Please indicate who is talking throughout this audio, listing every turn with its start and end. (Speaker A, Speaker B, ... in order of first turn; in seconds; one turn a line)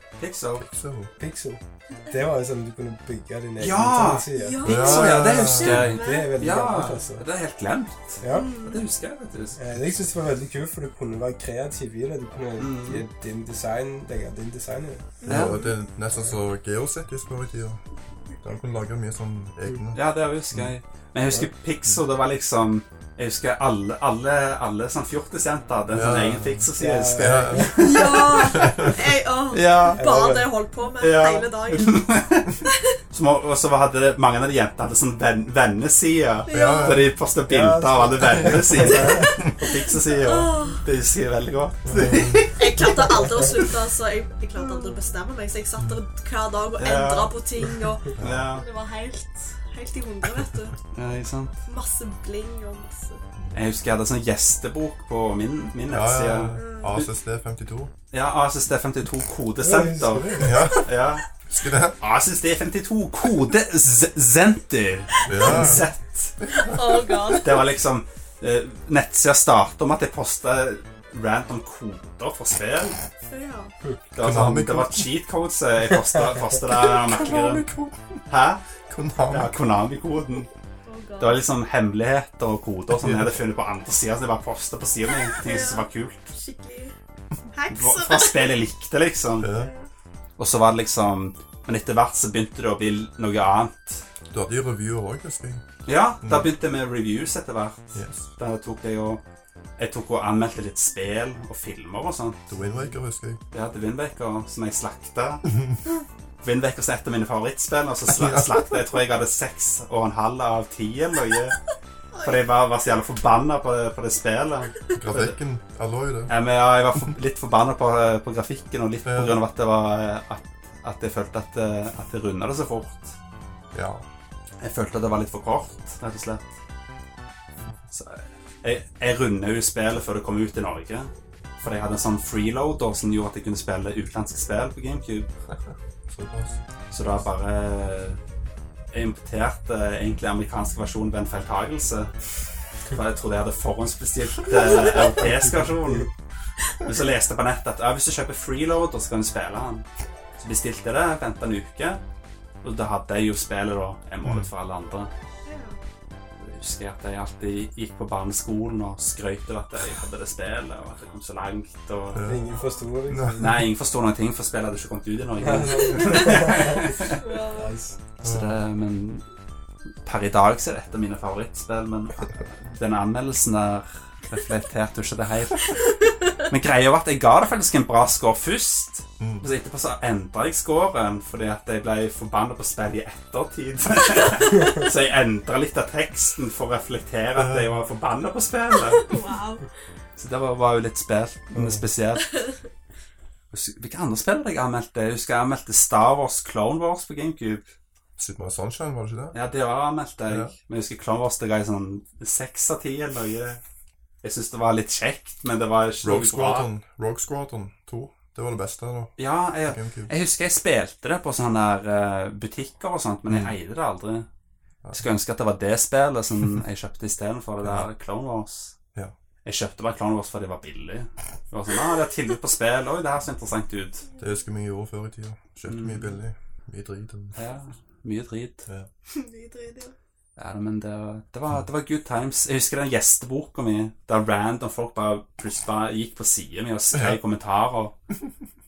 Speaker A: 0.2-0.6
Speaker B: 0.6-1.1
Speaker C: 1.2-4.6
Speaker A: 3.6-9.6
Speaker D: 4.3-6.4
Speaker B: 4.6-5.9
Speaker C: 5.7-7.2
Speaker C: 8.2-8.5
Speaker D: 8.2-8.8
Speaker C: 9.6-15.1
Speaker A: 12.6-13.0
Speaker D: 15.2-15.8
Speaker B: 15.2-17.8
Speaker A: 15.2-15.6
Speaker B: 18.4-20.7
Speaker A: 19.9-28.8
Speaker B: 25.9-29.0
Speaker C: 26.8-27.9
Speaker D: 27.8-32.0
Speaker A: 29.5-30.0
Speaker C: 29.9-30.5
Speaker A: 31.0-32.6
Speaker D: 32.6-32.9
Speaker A: 33.1-43.0
Speaker D: 36.5-37.1
Speaker B: 36.5-37.1
Speaker C: 37.5-39.4
Speaker D: 40.2-40.8
Speaker B: 41.8-42.5
Speaker D: 42.6-50.8
Speaker C: 43.2-43.5
Speaker A: 46.8-47.4
Speaker A: 48.1-48.6
Speaker B: 48.2-48.5
Speaker A: 50.9-51.5
Speaker D: 51.6-53.2
Speaker B: 53.4-53.6
Speaker A: 53.5-57.1
Speaker B: 55.9-57.9
Speaker D: 56.5-57.1
Speaker A: 58.1-61.2
Speaker C: 59.6-60.6
Speaker B: 60.4-60.9
Speaker B: 61.5-62.0
Speaker A: 62.0-66.7
Speaker B: 65.3-65.9
Speaker C: 65.4-65.8
Speaker B: 66.5-66.8
Speaker D: 66.5-67.7
Speaker A: 67.3-73.0
Speaker D: 73.2-73.7
Speaker A: 74.1-77.7
Speaker B: 74.2-75.1
Speaker B: 76.7-78.2
Speaker A: 78.3-78.6
Speaker B: 78.9-79.6
Speaker A: 79.3-80.5
Speaker D: 80.8-81.4
Speaker A: 81.2-86.3
Speaker B: 83.0-83.4
Speaker D: 85.2-86.9
Speaker D: 87.5-88.6
Speaker A: 87.7-89.5
Speaker B: 89.4-89.7
Speaker D: 89.5-89.8
Speaker A: 90.4-94.0
Speaker B: 94.3-95.6
Speaker A: 95.8-99.2
Speaker B: 96.2-96.5
Speaker B: 97.9-98.3
Speaker A: 99.8-102.5
Speaker B: 102.5-103.4
Speaker A: 103.5-105.5
Speaker A: 106.4-111.6
Speaker D: 112.1-112.4
Speaker A: 112.2-115.3
Speaker B: 114.9-116.3
Speaker A: 116.3-123.2
Speaker B: 119.0-119.4
Speaker B: 123.7-124.0
Speaker A: 124.6-126.5
Speaker A: 127.9-131.1
Speaker A: 131.6-135.3
Speaker B: 136.1-136.6
Speaker A: 136.9-138.2
Speaker A: 138.9-142.1
Speaker A: 142.9-146.1
Speaker A: 146.8-149.8
Speaker A: 150.4-152.0
Speaker A: 152.6-155.1
Speaker B: 154.2-154.5
Speaker D: 155.4-155.8
Speaker A: 156.4-162.2
Speaker B: 162.1-162.5
Speaker C: 162.2-163.6
Speaker B: 163.1-163.6
Speaker A: 163.4-167.2
Speaker C: 165.4-167.0
Speaker D: 167.0-167.7
Speaker C: 167.5-168.0
Speaker A: 168.2-169.2
Speaker B: 168.2-168.6
Speaker A: 170.0-189.2
Speaker B: 179.2-179.5
Speaker B: 187.3-187.7
Speaker D: 188.9-189.6
Speaker A: 190.2-192.4
Speaker B: 191.5-191.8
Speaker A: 193.5-197.7
Speaker B: 198.2-199.3
Speaker A: 199.3-203.6
Speaker A: 204.2-206.7
Speaker B: 206.0-209.1
Speaker A: 209.2-214.2
Speaker B: 209.6-210.1
Speaker B: 213.3-213.6
Speaker A: 214.9-218.8
Speaker B: 217.6-217.9
Speaker A: 219.4-224.0
Speaker B: 224.2-227.3
Speaker A: 225.7-226.2
Speaker A: 227.3-228.7
Speaker D: 229.1-229.9
Speaker A: 230.4-237.9